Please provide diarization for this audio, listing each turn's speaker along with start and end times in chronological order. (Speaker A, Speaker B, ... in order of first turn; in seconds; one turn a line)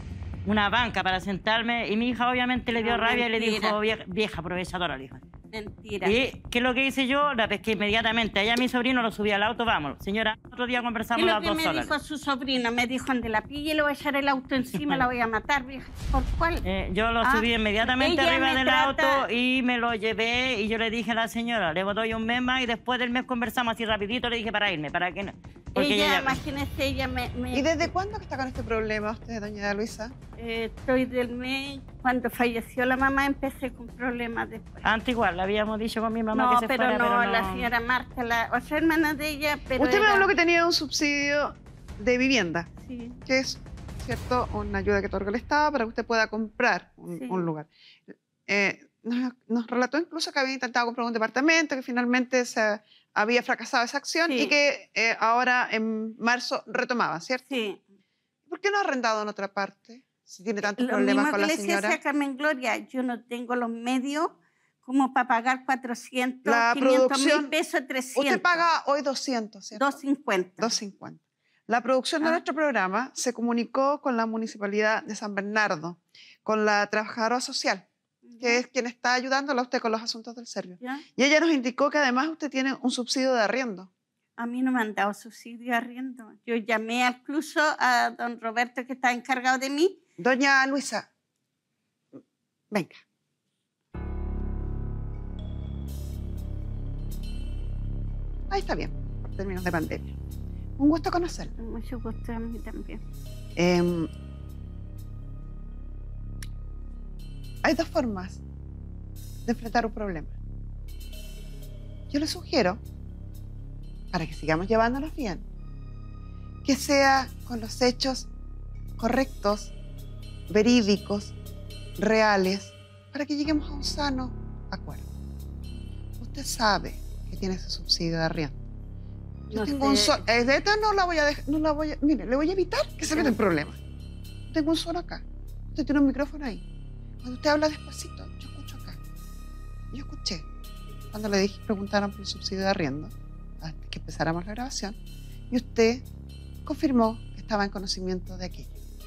Speaker A: 0.4-5.2
Speaker B: 2.7-3.8
Speaker B: 5.5-6.2
Speaker A: 6.0-11.9
Speaker B: 11.2-16.6
Speaker A: 16.6-26.4
Speaker B: 17.2-19.2
Speaker B: 25.8-27.9
Speaker C: 27.5-30.1
Speaker B: 30.4-34.8
Speaker A: 34.8-37.7
Speaker B: 36.3-40.3
Speaker C: 39.8-42.7
Speaker B: 42.8-43.2
Speaker C: 43.2-47.7
Speaker B: 47.1-47.5
Speaker C: 48.5-57.5
Speaker B: 54.3-54.5
Speaker B: 57.5-57.8
Speaker C: 58.5-62.0
Speaker B: 60.6-68.7
Speaker C: 66.4-67.5
Speaker C: 68.1-70.0
Speaker B: 69.7-70.8
Speaker C: 70.6-77.9
Speaker B: 78.3-78.6
Speaker C: 78.4-83.9
Speaker B: 84.4-90.0
Speaker C: 90.2-91.1
Speaker C: 92.7-93.0
Speaker C: 98.5-100.1
Speaker C: 100.8-101.5
Speaker B: 101.6-103.0
Speaker C: 103.5-104.1
Speaker C: 107.6-108.4
Speaker C: 109.4-110.3
Speaker C: 112.1-112.8
Speaker C: 114.1-115.5
Speaker C: 116.6-118.3
Speaker C: 119.0-119.7
Speaker C: 120.5-121.3
Speaker C: 122.0-125.1
Speaker C: 126.2-128.6
Speaker C: 129.5-133.8
Speaker B: 129.5-130.2
Speaker C: 134.5-136.6
Speaker C: 137.2-139.0
Speaker C: 139.9-140.4
Speaker C: 141.1-145.0
Speaker C: 145.5-146.0
Speaker C: 146.6-148.7